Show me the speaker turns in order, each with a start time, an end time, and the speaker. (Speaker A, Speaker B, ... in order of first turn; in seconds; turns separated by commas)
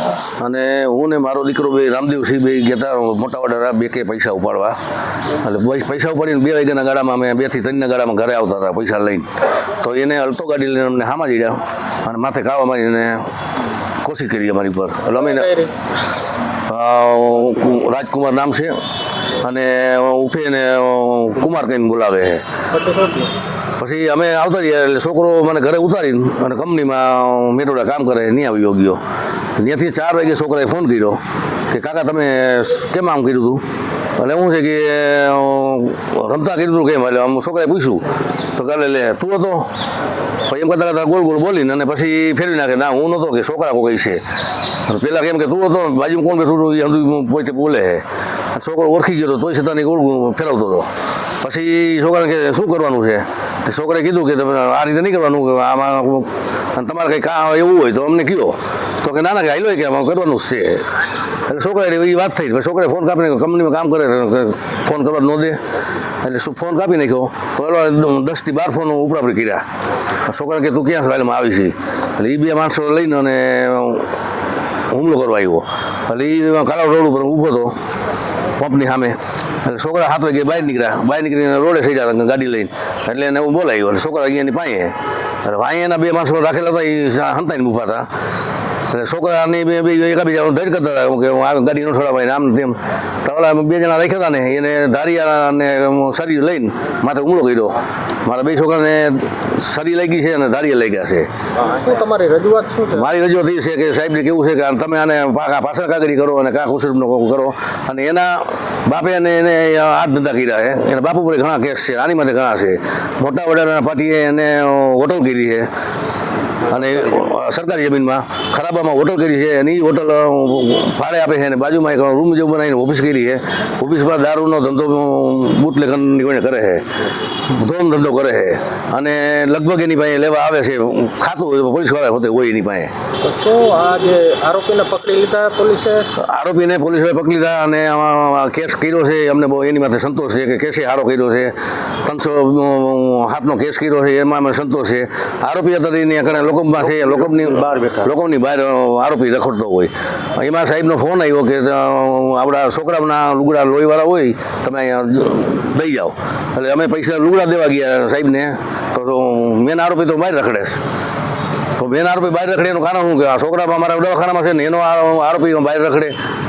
Speaker A: 0.4-4.8, Speaker A: 5.4-9.3, Speaker A: 9.8-13.3, Speaker A: 14.0-15.5, Speaker B: 15.2-15.7, Speaker A: 16.7-18.8, Speaker A: 19.4-22.4, Speaker B: 22.7-23.3, Speaker A: 23.8-29.0, Speaker A: 29.6-33.6, Speaker A: 34.2-39.7, Speaker A: 40.5-44.2, Speaker A: 44.9-50.9, Speaker A: 51.4-60.9, Speaker A: 61.5-65.6, Speaker A: 66.2-69.7, Speaker A: 70.3-74.1, Speaker A: 74.9-77.7, Speaker A: 78.6-88.1, Speaker A: 88.9-101.3, Speaker B: 101.6-103.1, Speaker A: 102.9-115.7, Speaker A: 116.7-126.9, Speaker A: 127.5-132.9, Speaker B: 133.2-136.1, Speaker A: 136.2-160.8, Speaker A: 161.8-166.2